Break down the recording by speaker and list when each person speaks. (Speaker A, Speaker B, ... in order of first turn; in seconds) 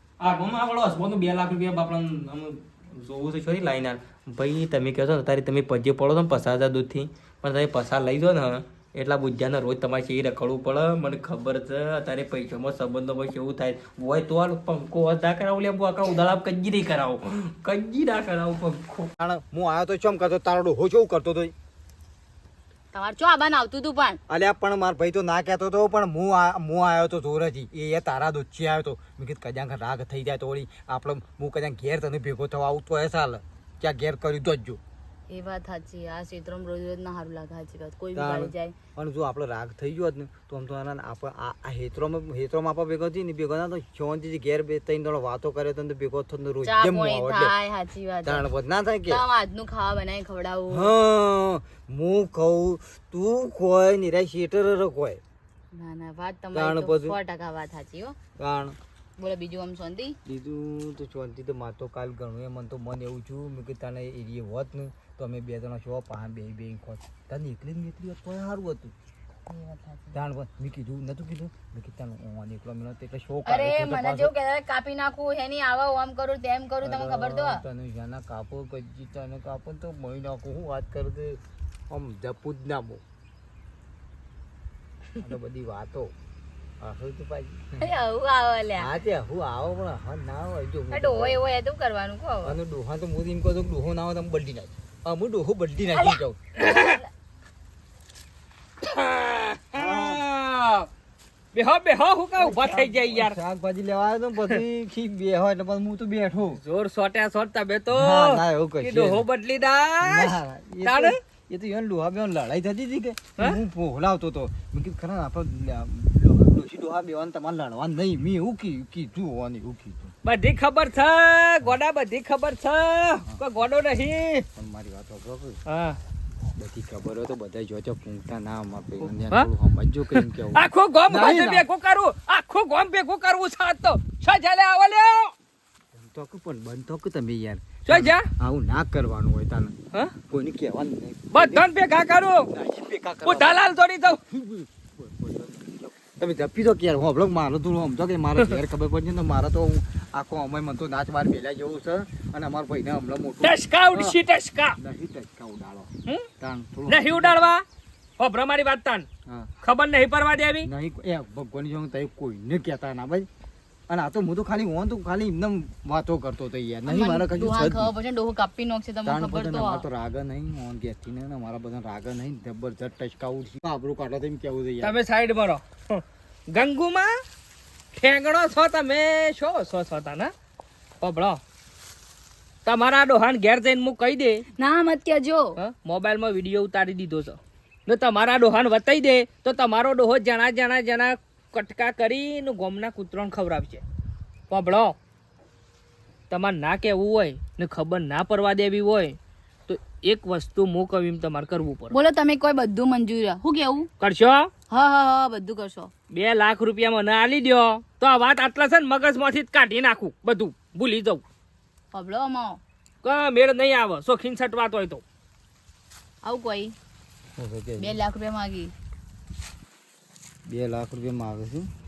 Speaker A: 0.2-19.1
Speaker B: 19.2-21.5, 24.3-34.8, 38.1-47.5, 48.2-49.2, 50.7-55.2, 56.5-57.2, 58.4-58.8, 60.2-68.9, 70.1-74.3, 76.8-83.0, 85.2-86.1, 86.8-87.9, 88.8-91.4, 92.4-96.4, 99.7-100.2, 102.4-106.6, 107.9-109.2, 110.0-120.2, 124.5-125.6, 126.6-131.6, 135.9-141.7, 142.5-154.2, 154.8-157.5, 160.6-163.3, 163.9-167.9, 169.1-175.0, 217.4-218.0, 220.5-221.7
Speaker C: 22.9-24.2, 35.3-38.8, 46.6-48.5, 49.1-50.9, 55.7-58.2, 59.2-60.2, 69.5-70.2, 73.5-77.6, 87.8-88.9, 90.9-92.6, 96.8-97.0, 166.9-169.8, 184.6-185.6, 201.9-203.9, 204.7-205.9, 211.9-212.6, 216.2-216.7, 217.8-218.7
Speaker D: 96.6-97.0, 98.8-100.9, 101.5-103.4, 106.6-111.2, 120.2-124.5, 125.7-126.0, 130.1-135.3, 137.9-138.3, 141.3-142.5, 143.2-144.2, 153.4-154.8, 156.9-157.7, 158.2-159.1, 159.6-160.7, 174.8-177.2, 177.9-180.3, 181.0-181.4, 182.7-184.4, 185.6-193.8, 194.5-195.0, 196.3-202.0, 204.0-204.5, 206.1-211.2, 213.0-215.0